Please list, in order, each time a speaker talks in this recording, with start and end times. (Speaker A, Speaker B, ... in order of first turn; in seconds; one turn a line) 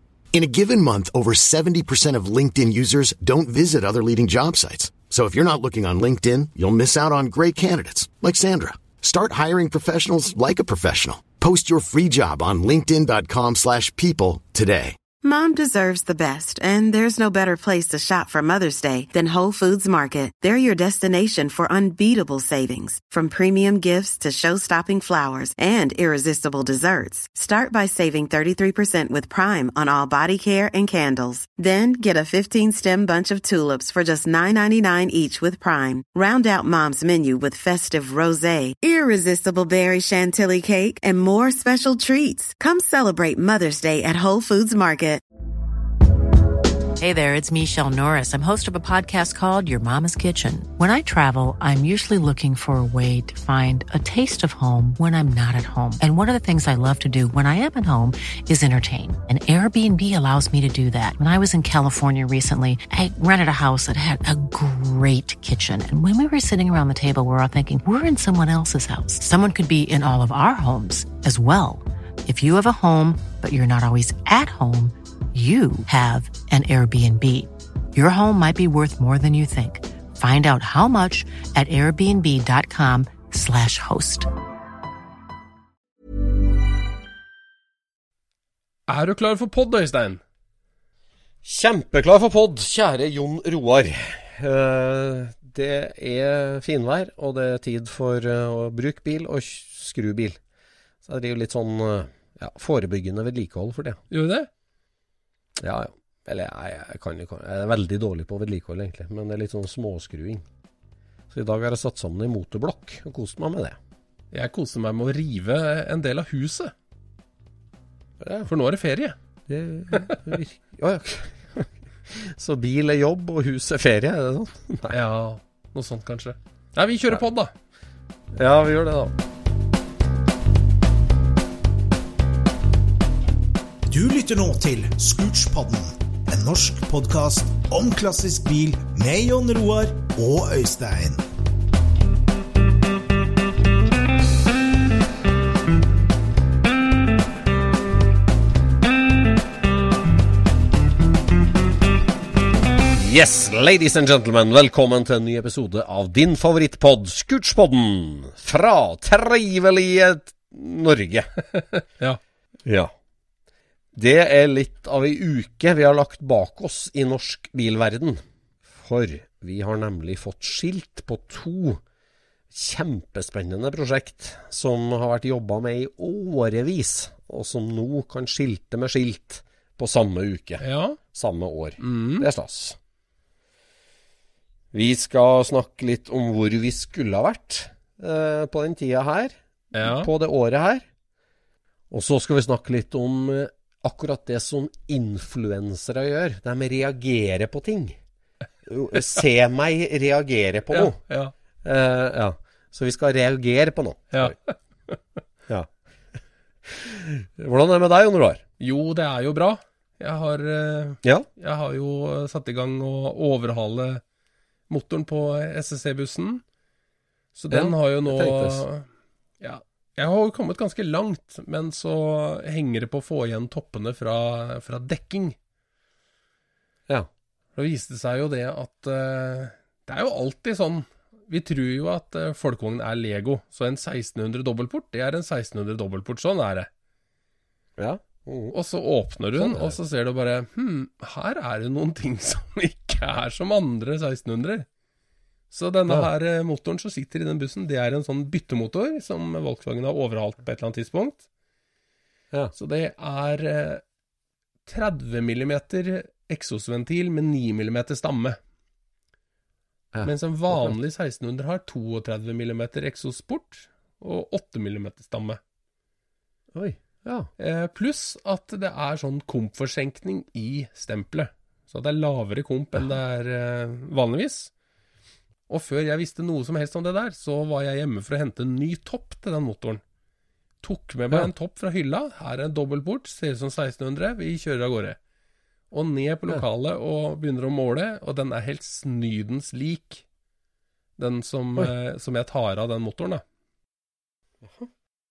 Speaker A: 0.3-15.0
Speaker B: 15.2-45.2
Speaker C: 47.0-84.3
Speaker D: 88.9-90.2
Speaker E: 91.4-100.4
Speaker E: 101.0-104.0
Speaker D: 104.1-104.5
Speaker E: 105.6-110.5
Speaker E: 111.3-113.8
Speaker D: 114.3-116.7
Speaker E: 118.2-118.5
Speaker D: 118.5-119.2
Speaker E: 119.5-125.0
Speaker D: 119.9-120.3
Speaker D: 124.9-127.5
Speaker E: 128.3-129.2
Speaker F: 133.9-141.2
Speaker E: 152.9-161.3
Speaker D: 161.5-162.2
Speaker E: 162.7-162.9
Speaker E: 163.9-171.8
Speaker E: 172.5-182.8
Speaker D: 180.6-181.0
Speaker D: 181.8-182.3
Speaker E: 184.7-190.9
Speaker D: 189.7-190.1
Speaker E: 191.9-198.0
Speaker E: 198.7-201.0
Speaker D: 200.7-201.3
Speaker E: 201.6-204.4
Speaker D: 204.1-205.0
Speaker E: 205.5-205.7
Speaker E: 206.6-208.4
Speaker D: 208.6-214.0
Speaker D: 214.7-216.4
Speaker D: 217.3-218.9
Speaker E: 217.5-218.6
Speaker D: 219.4-225.4
Speaker D: 227.6-236.7
Speaker E: 237.8-238.6
Speaker D: 238.5-244.7
Speaker E: 239.3-239.8
Speaker D: 245.5-251.2
Speaker D: 252.5-253.8
Speaker D: 254.7-258.4
Speaker E: 259.9-260.8
Speaker D: 260.0-265.4
Speaker E: 266.5-267.3
Speaker D: 267.4-274.5
Speaker D: 275.5-279.8
Speaker D: 280.6-285.0
Speaker D: 285.7-290.0
Speaker D: 291.0-293.2
Speaker E: 294.4-294.7